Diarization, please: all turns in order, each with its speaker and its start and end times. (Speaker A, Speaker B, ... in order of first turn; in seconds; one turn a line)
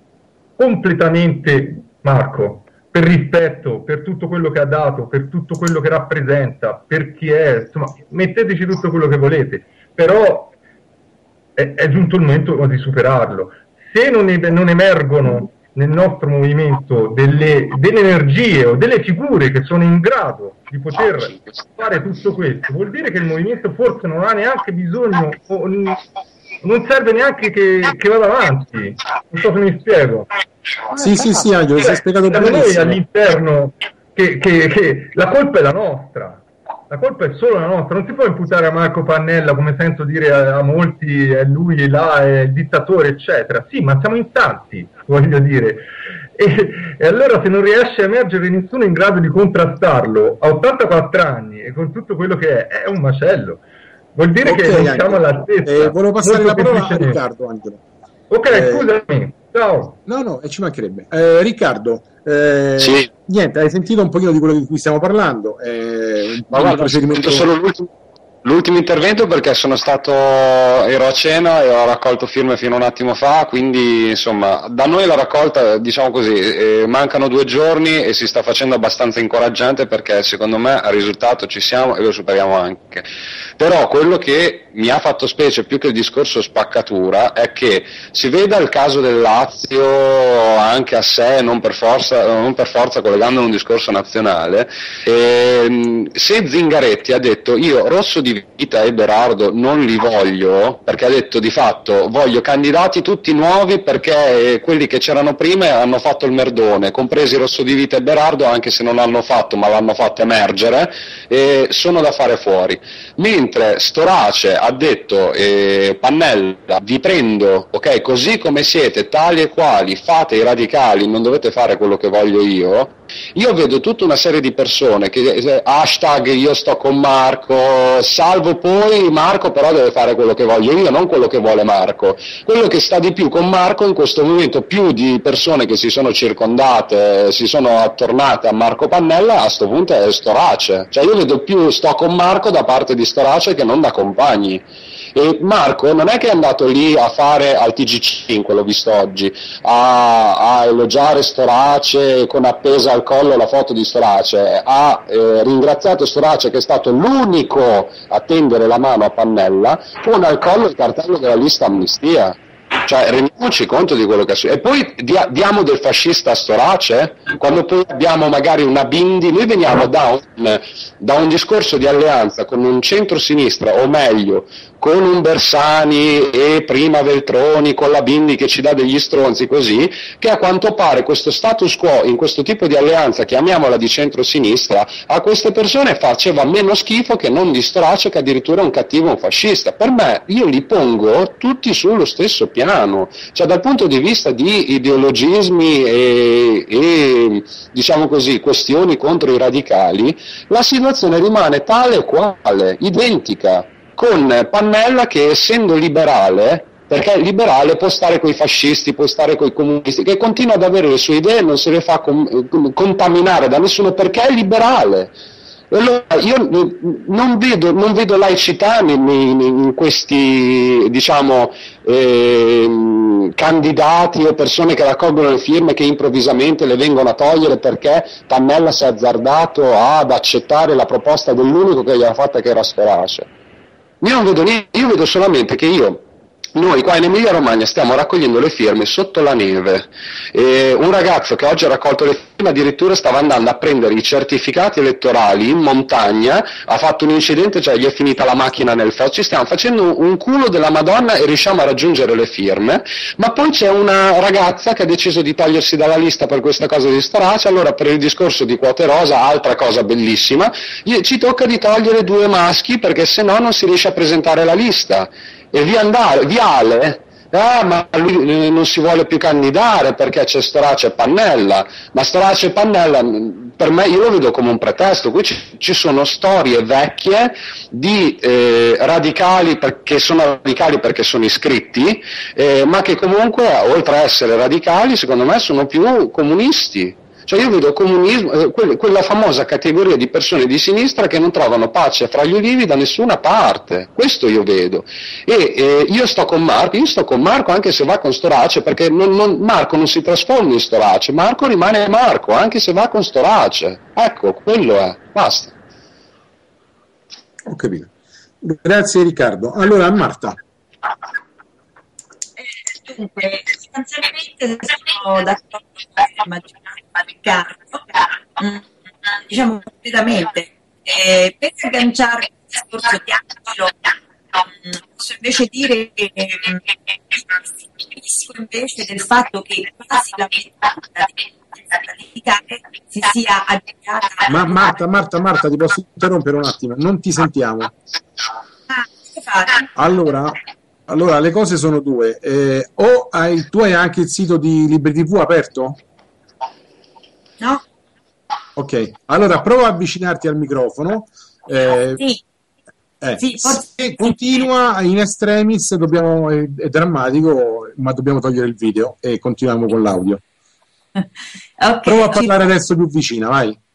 Speaker A: 0.6-10.6
Speaker A: 11.6-26.0
Speaker A: 26.6-30.3
Speaker B: 30.9-33.0
Speaker A: 32.3-53.6
Speaker A: 54.1-57.2
Speaker B: 54.5-57.8
Speaker A: 58.3-60.0
Speaker B: 58.5-58.9
Speaker B: 60.1-67.5
Speaker C: 62.8-63.1
Speaker C: 66.5-67.9
Speaker C: 68.4-83.1
Speaker C: 83.6-144.6
Speaker C: 145.2-215.1
Speaker C: 215.7-233.3
Speaker C: 234.0-236.0
Speaker C: 236.6-305.6
Speaker B: 307.5-307.9
Speaker B: 308.4-310.4
Speaker D: 312.4-334.3
Speaker B: 334.3-337.7
Speaker D: 338.7-339.7
Speaker B: 339.8-340.4
Speaker B: 340.9-345.8
Speaker B: 348.6-352.0
Speaker B: 353.0-360.2
Speaker D: 353.2-353.6
Speaker D: 361.6-362.2
Speaker B: 361.9-363.6